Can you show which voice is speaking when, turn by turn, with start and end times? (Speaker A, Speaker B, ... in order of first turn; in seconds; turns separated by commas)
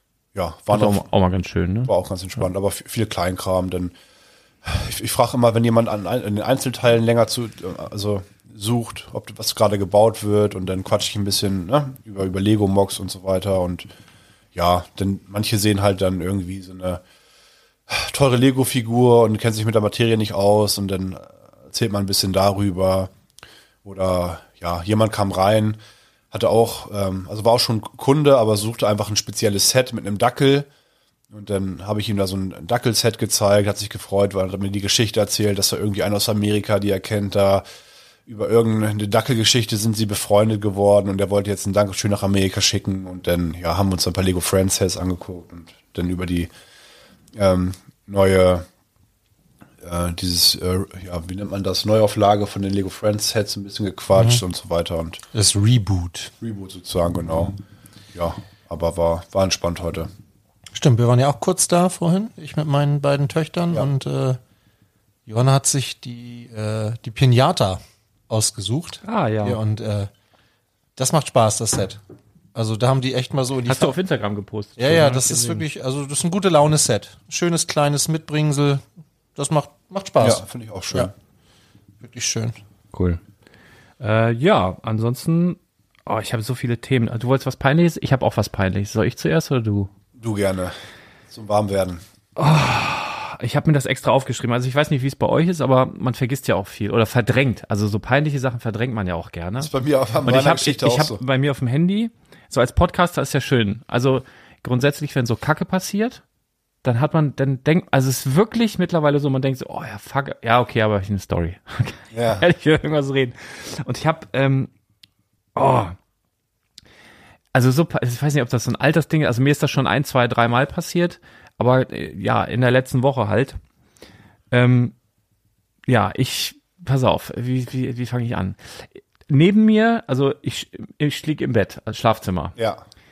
Speaker A: 0.3-1.1, Speaker B: 0.7-1.9, Speaker A: 1.9-3.9, Speaker A: 4.6-13.9, Speaker A: 14.6-17.0, Speaker A: 17.9-23.1, Speaker A: 23.8-25.8, Speaker A: 26.3-30.7, Speaker A: 31.3-37.6, Speaker A: 38.3-46.5, Speaker A: 47.4-48.6, Speaker A: 49.8-55.2, Speaker C: 54.1-54.4, Speaker C: 55.3-56.3, Speaker A: 56.4-57.6, Speaker A: 58.1-60.1, Speaker C: 60.7-64.4, Speaker C: 65.3-70.1, Speaker B: 69.0-69.6, Speaker C: 71.0-72.0, Speaker C: 72.5-74.0, Speaker B: 73.7-75.7, Speaker C: 74.8-78.8, Speaker C: 79.3-81.1, Speaker A: 80.2-81.1, Speaker C: 82.0-82.6, Speaker B: 82.9-83.2, Speaker B: 84.0-89.9, Speaker A: 90.2-90.8, Speaker A: 91.3-92.0, Speaker B: 92.4-99.7, Speaker A: 99.6-101.2, Speaker B: 100.2-106.2, Speaker B: 106.8-114.7, Speaker A: 112.1-112.5, Speaker B: 115.6-116.0, Speaker B: 117.5-123.6, Speaker B: 124.5-124.9, Speaker B: 125.9-132.6, Speaker A: 132.6-132.8